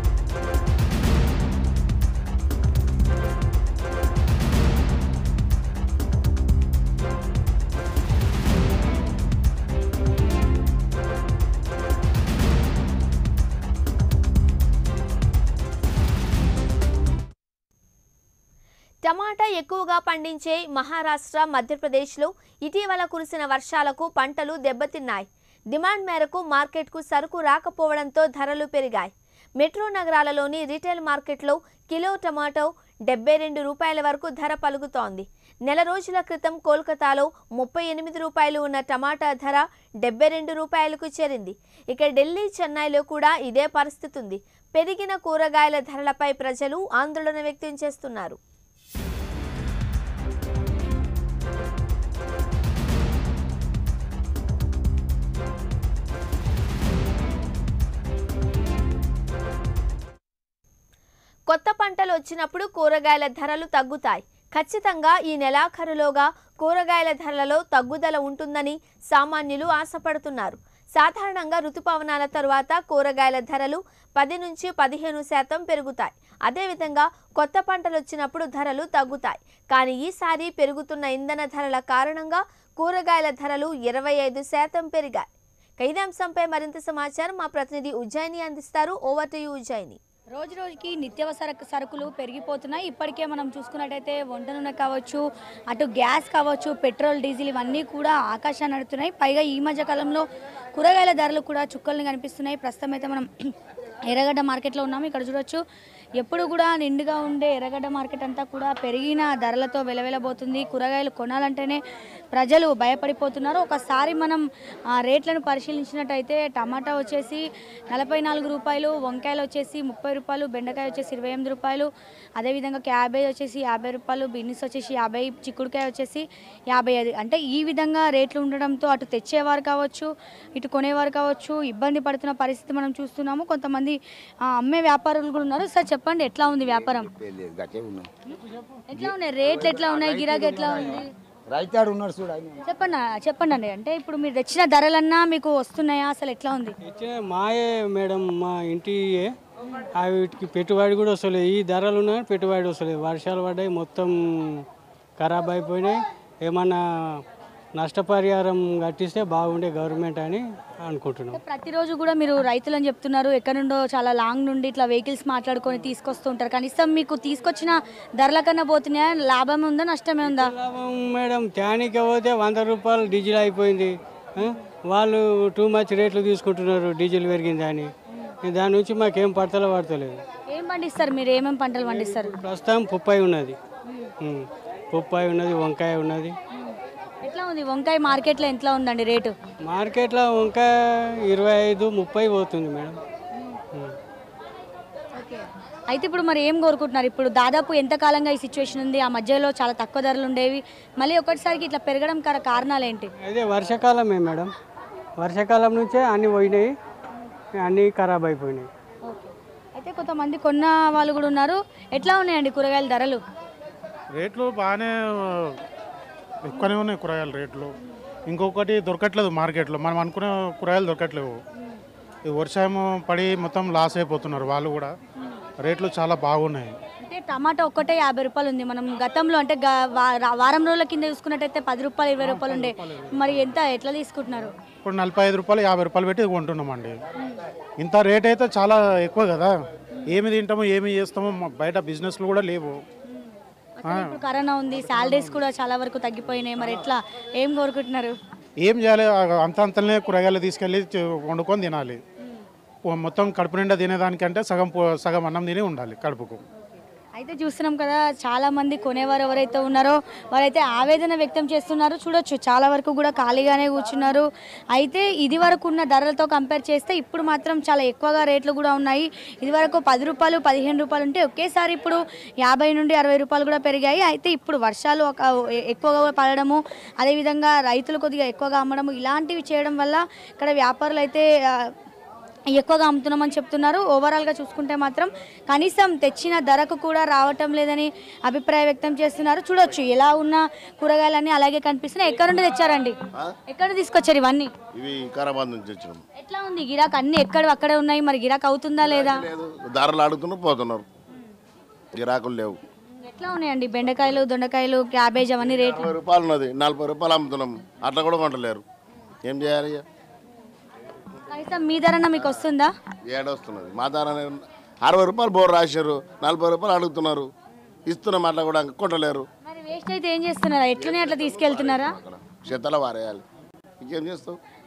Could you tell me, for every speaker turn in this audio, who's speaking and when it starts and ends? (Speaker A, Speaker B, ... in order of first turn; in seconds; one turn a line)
Speaker A: 19.0-48.4
Speaker A: 61.5-85.3
Speaker A: 85.8-90.0
Speaker B: 90.3-103.5
Speaker B: 104.1-105.6
Speaker B: 106.2-111.8
Speaker B: 112.3-114.4
Speaker B: 115.0-137.1
Speaker C: 136.8-138.1
Speaker B: 138.9-141.1
Speaker C: 138.9-142.6
Speaker B: 142.6-146.8
Speaker D: 146.8-149.3
Speaker D: 150.0-154.6
Speaker D: 155.2-157.2
Speaker D: 157.8-161.4
Speaker B: 161.3-170.5
Speaker D: 170.2-177.9
Speaker D: 178.4-180.2
Speaker B: 180.5-182.3
Speaker D: 182.1-183.6
Speaker B: 183.9-184.1
Speaker D: 184.2-186.3
Speaker B: 186.5-189.3
Speaker D: 189.6-190.7
Speaker D: 191.2-193.0
Speaker B: 193.3-193.6
Speaker B: 195.2-203.1
Speaker D: 203.2-204.5
Speaker D: 205.2-206.7
Speaker D: 207.6-208.7
Speaker B: 209.1-213.2
Speaker E: 214.1-215.6
Speaker E: 216.4-217.7
Speaker E: 218.3-221.4
Speaker E: 222.2-224.9
Speaker E: 225.6-226.8
Speaker B: 227.0-234.5
Speaker E: 232.2-233.5
Speaker E: 234.8-237.0
Speaker E: 237.8-239.6
Speaker E: 240.1-242.8
Speaker B: 243.8-248.2
Speaker E: 243.9-244.2
Speaker E: 244.8-245.3
Speaker E: 248.6-252.0
Speaker E: 252.9-256.4
Speaker B: 257.2-281.7
Speaker B: 282.5-293.0
Speaker B: 293.5-294.5
Speaker F: 294.7-296.0
Speaker B: 296.2-299.2
Speaker F: 298.8-300.9
Speaker F: 301.9-302.6
Speaker B: 303.0-305.9
Speaker F: 305.6-308.6
Speaker F: 309.2-309.8
Speaker B: 311.3-312.7
Speaker F: 313.1-317.3
Speaker F: 317.9-319.3
Speaker B: 319.5-321.9
Speaker F: 320.8-323.2
Speaker F: 323.8-324.4